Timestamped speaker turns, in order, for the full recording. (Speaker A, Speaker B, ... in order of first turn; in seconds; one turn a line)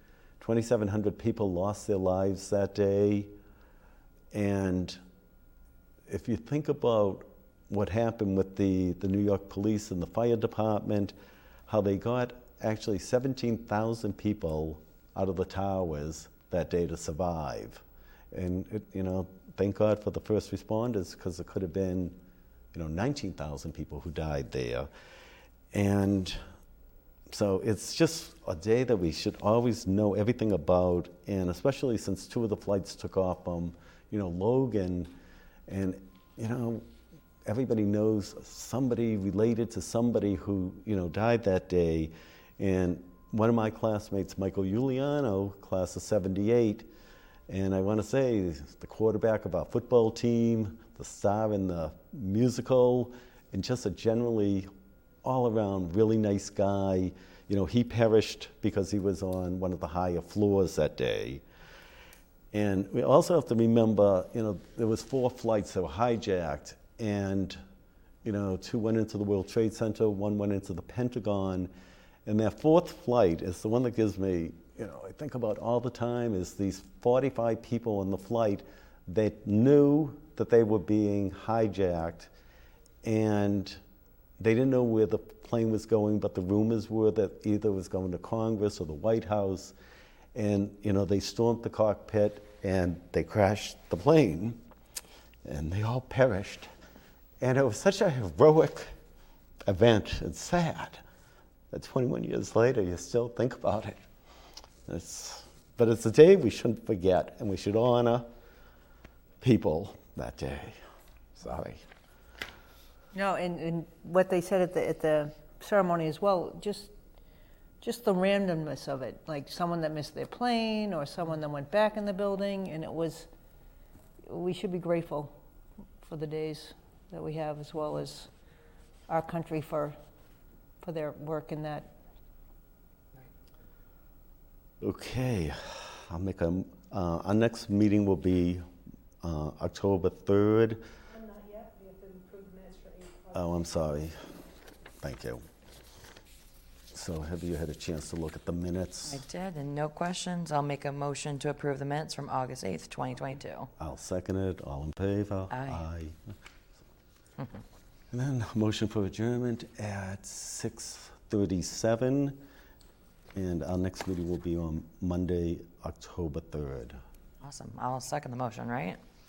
Speaker A: 0.4-3.3
Speaker A: 4.3-5.0
Speaker A: 6.1-11.1
Speaker A: 11.7-22.2
Speaker A: 22.7-24.9
Speaker A: 25.7-26.4
Speaker A: 27.3-35.1
Speaker A: 35.7-36.9
Speaker A: 37.5-46.9
Speaker A: 47.5-54.7
Speaker A: 55.2-61.4
Speaker A: 62.5-67.6
Speaker A: 68.2-71.7
Speaker A: 72.3-82.3
Speaker A: 83.0-83.8
Speaker A: 84.4-89.8
Speaker A: 90.3-94.6
Speaker A: 95.4-96.7
Speaker A: 97.4-98.9
Speaker A: 99.7-101.0
Speaker A: 101.7-104.0
Speaker A: 104.9-108.3
Speaker A: 109.4-110.8
Speaker A: 111.4-111.8
Speaker B: 113.1-116.9
Speaker B: 117.8-123.3
Speaker B: 124.3-125.4
Speaker B: 126.0-128.3
Speaker B: 129.1-130.0
Speaker B: 130.8-131.9
Speaker A: 134.8-138.7
Speaker A: 139.2-140.8
Speaker C: 141.1-143.9
Speaker A: 143.3-144.3
Speaker A: 145.0-145.4
Speaker A: 146.9-149.2
Speaker D: 149.1-153.7
Speaker A: 153.8-156.4
Speaker D: 155.5-155.8
Speaker A: 158.1-162.4
Speaker A: 163.3-167.0
Speaker D: 167.4-169.0